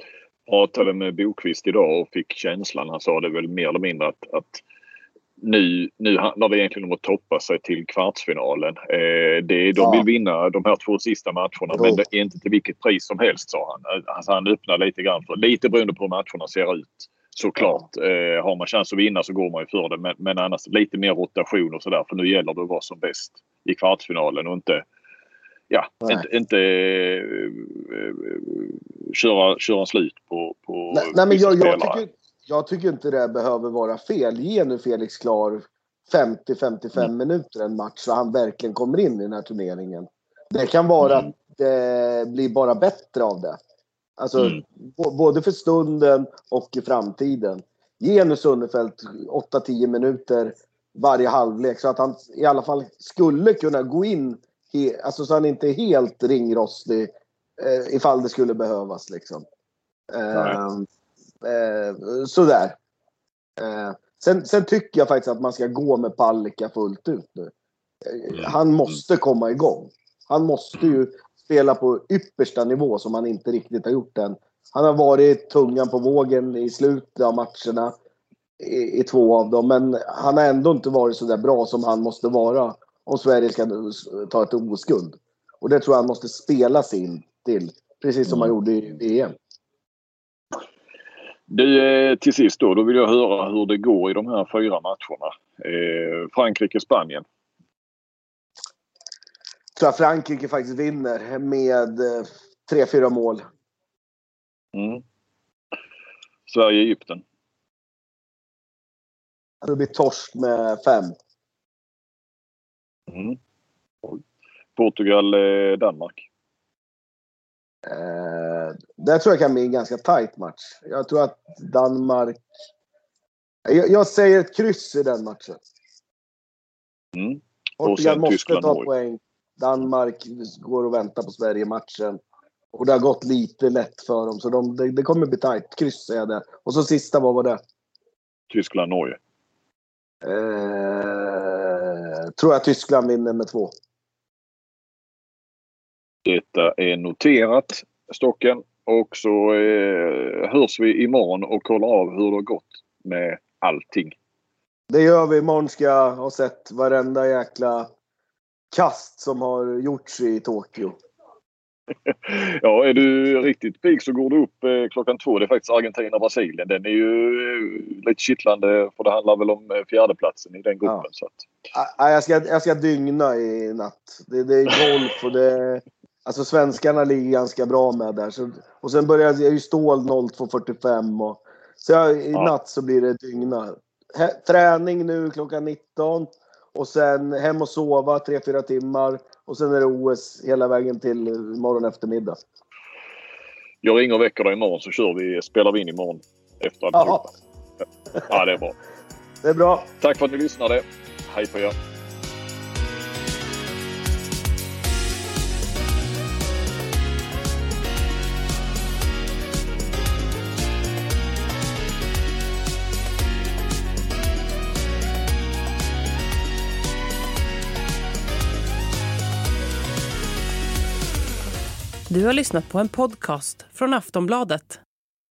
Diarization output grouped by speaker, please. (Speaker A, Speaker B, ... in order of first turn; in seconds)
Speaker A: 0.5-4.6, 5.4-24.8, 25.7-32.0, 41.0-41.3, 60.3-60.6, 88.3-88.5, 91.5-97.2, 104.7-105.0, 106.5-107.2, 113.1-113.4, 114.7-116.3, 127.1-128.9, 138.5-139.2, 146.2-154.1, 162.0-171.5, 193.8-197.3, 198.3-198.8, 200.0-201.7
Speaker B: 9.8-10.0, 11.7-12.0, 30.9-43.6, 44.2-59.4, 60.1-60.9, 61.4-62.8, 63.6-67.5, 68.0-77.9, 78.6-89.3, 99.8-103.4, 109.6-111.1, 117.9-122.4, 123.7-125.6, 127.8-132.2, 132.7-137.6, 140.2-143.7, 154.9-157.9, 158.7-161.0, 171.7-192.4, 196.9-197.3, 199.4-199.9
Speaker C: 222.1-224.8